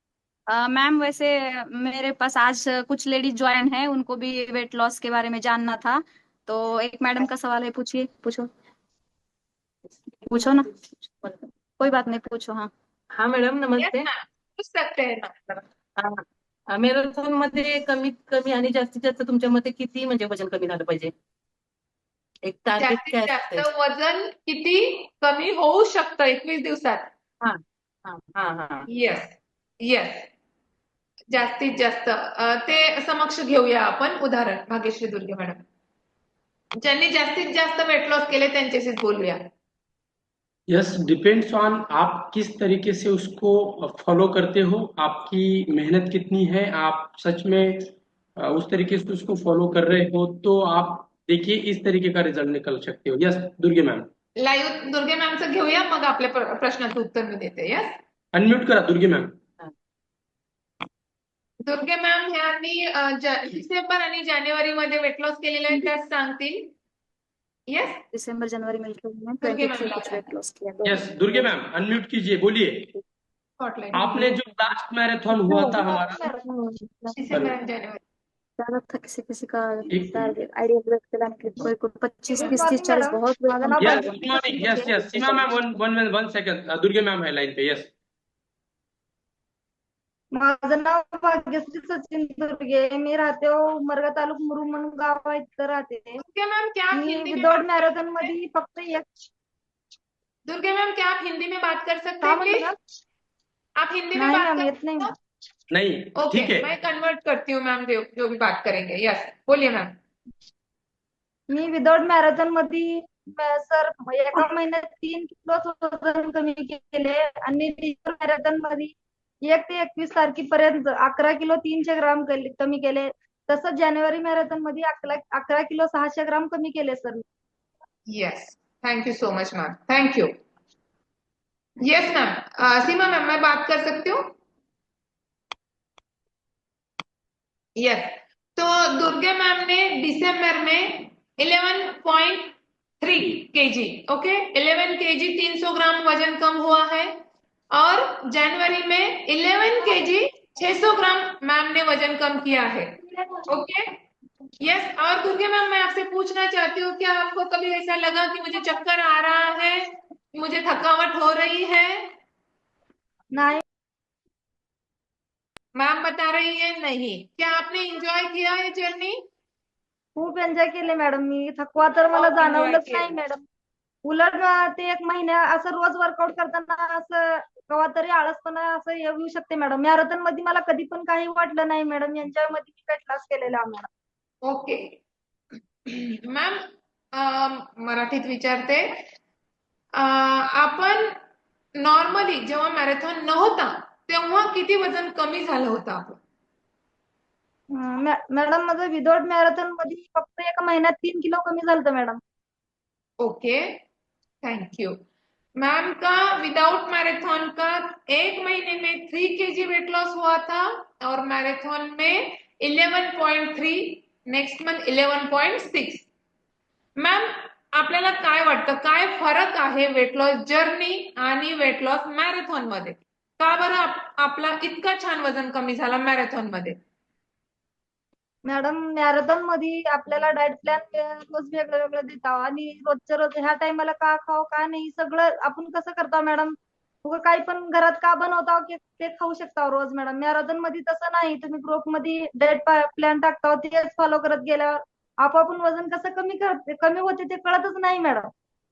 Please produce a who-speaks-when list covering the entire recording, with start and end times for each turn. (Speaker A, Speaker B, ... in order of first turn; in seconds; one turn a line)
Speaker A: 0.5-8.5
Speaker A: 10.2-12.7
Speaker B: 13.1-14.1
Speaker C: 13.8-15.6
Speaker B: 16.0-21.1
Speaker B: 22.4-23.7
Speaker C: 22.8-27.1
Speaker B: 27.4-28.9
Speaker C: 28.9-30.3
Speaker C: 31.3-35.6
Speaker C: 36.8-39.4
Speaker D: 40.7-54.1
Speaker C: 54.4-58.0
Speaker D: 58.3-59.3
Speaker C: 61.6-66.7
Speaker C: 67.7-68.0
Speaker A: 68.1-71.5
Speaker C: 69.4-70.3
Speaker D: 70.8-72.9
Speaker C: 73.6-74.3
Speaker D: 73.9-76.2
Speaker A: 75.3-77.2
Speaker E: 75.5-76.5
Speaker C: 77.1-78.0
Speaker A: 78.6-85.7
Speaker D: 79.9-80.3
Speaker E: 82.3-84.7
Speaker D: 83.8-87.9
Speaker E: 90.3-96.2
Speaker C: 96.2-98.3
Speaker E: 96.9-99.1
Speaker C: 100.5-102.7
Speaker E: 102.2-102.8
Speaker C: 103.8-105.1
Speaker E: 104.2-105.1
Speaker D: 105.7-106.7
Speaker C: 106.2-109.9
Speaker E: 111.5-127.2
Speaker C: 128.1-130.3
Speaker C: 131.8-134.3
Speaker C: 137.8-147.1
Speaker C: 147.7-153.0
Speaker C: 153.5-153.9
Speaker C: 154.6-162.1
Speaker E: 163.3-163.6
Speaker C: 165.8-169.2
Speaker E: 170.2-173.4
Speaker C: 172.1-173.1
Speaker E: 174.0-183.9
Speaker C: 184.4-184.9
Speaker C: 185.9-186.6
Speaker C: 187.1-189.0
Speaker C: 190.0-191.1
Speaker C: 191.8-196.2
Speaker E: 197.7-202.2
Speaker C: 203.2-203.8
Speaker C: 204.4-205.0
Speaker C: 205.6-216.1
Speaker C: 217.0-226.8
Speaker E: 228.4-248.3